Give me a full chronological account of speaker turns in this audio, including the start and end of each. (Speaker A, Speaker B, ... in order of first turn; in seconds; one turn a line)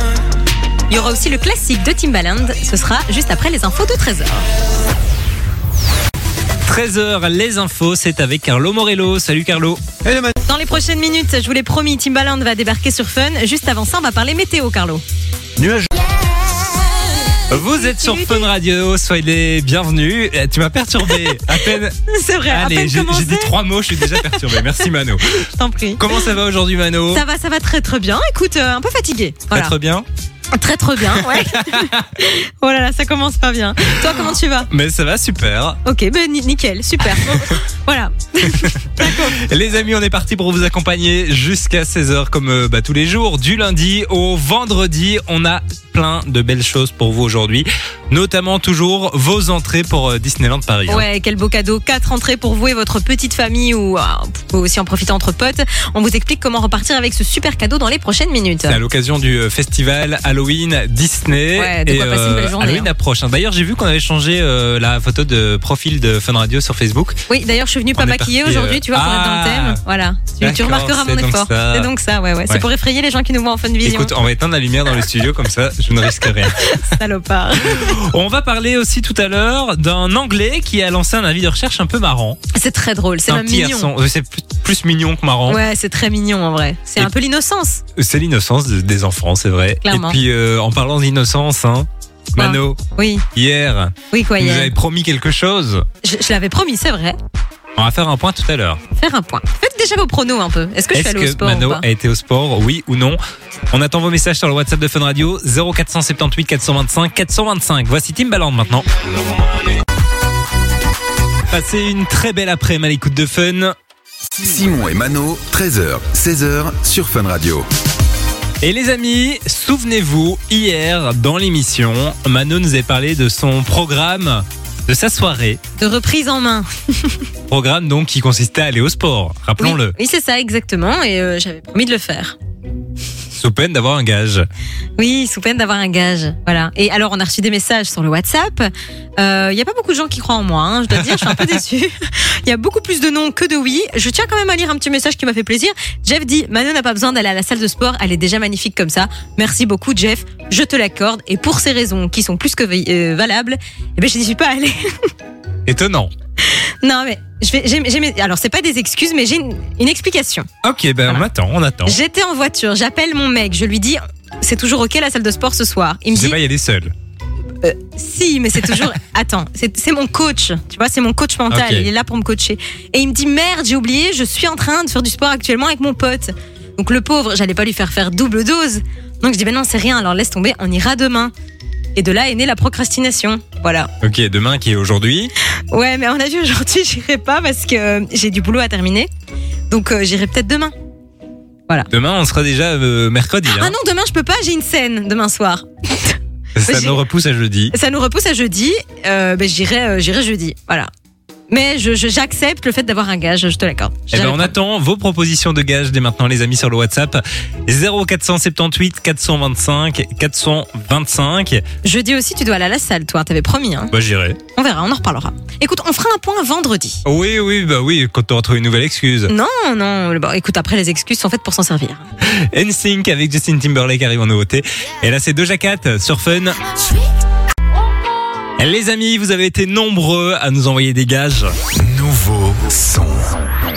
Speaker A: 0.9-4.5
Speaker B: 6.7-9.8
Speaker A: 10.5-15.0
Speaker B: 17.5-22.0
Speaker A: 17.8-18.5
Speaker A: 21.1-24.8
Speaker B: 22.5-25.4
Speaker A: 25.4-26.3
Speaker B: 26.0-27.2
Speaker A: 27.1-29.8
Speaker B: 29.5-30.1
Speaker A: 30.5-34.7
Speaker B: 31.1-32.1
Speaker B: 34.7-35.8
Speaker A: 35.9-39.4
Speaker B: 38.5-51.0
Speaker A: 50.9-58.8
Speaker B: 58.7-67.2
Speaker A: 61.6-62.9
Speaker A: 67.3-74.1
Speaker B: 68.0-69.8
Speaker B: 70.4-71.9
Speaker B: 73.8-76.7
Speaker A: 76.3-78.0
Speaker B: 77.6-82.4
Speaker A: 82.5-83.9
Speaker B: 83.3-85.6
Speaker A: 85.5-87.8
Speaker B: 88.0-92.8
Speaker A: 89.8-90.2
Speaker A: 92.4-93.3
Speaker B: 93.3-95.9
Speaker A: 94.1-94.7
Speaker A: 96.0-97.2
Speaker B: 97.8-98.8
Speaker A: 99.0-101.8
Speaker B: 101.0-103.2
Speaker B: 103.7-109.0
Speaker B: 111.5-113.8
Speaker C: 114.3-117.7
Speaker B: 118.6-125.6
Speaker A: 125.8-127.2
Speaker B: 127.5-129.9
Speaker A: 129.6-132.3
Speaker B: 133.3-134.5
Speaker A: 135.0-155.1
Speaker B: 141.1-141.5
Speaker B: 155.7-156.1
Speaker A: 156.4-160.5
Speaker B: 160.6-162.0
Speaker A: 161.9-166.4
Speaker B: 166.1-166.9
Speaker A: 167.6-181.3
Speaker B: 171.5-171.9
Speaker A: 182.0-183.9
Speaker B: 184.0-185.3
Speaker A: 185.7-189.1
Speaker A: 189.7-190.7
Speaker B: 191.9-193.7
Speaker A: 193.5-197.0
Speaker B: 196.6-197.7
Speaker A: 197.7-200.9
Speaker A: 201.5-204.6
Speaker B: 204.1-211.6
Speaker A: 211.8-213.9
Speaker B: 213.9-214.4
Speaker A: 214.6-217.0
Speaker B: 217.1-219.3
Speaker A: 219.3-222.0
Speaker B: 222.2-226.6
Speaker B: 228.6-231.6
Speaker C: 231.8-233.3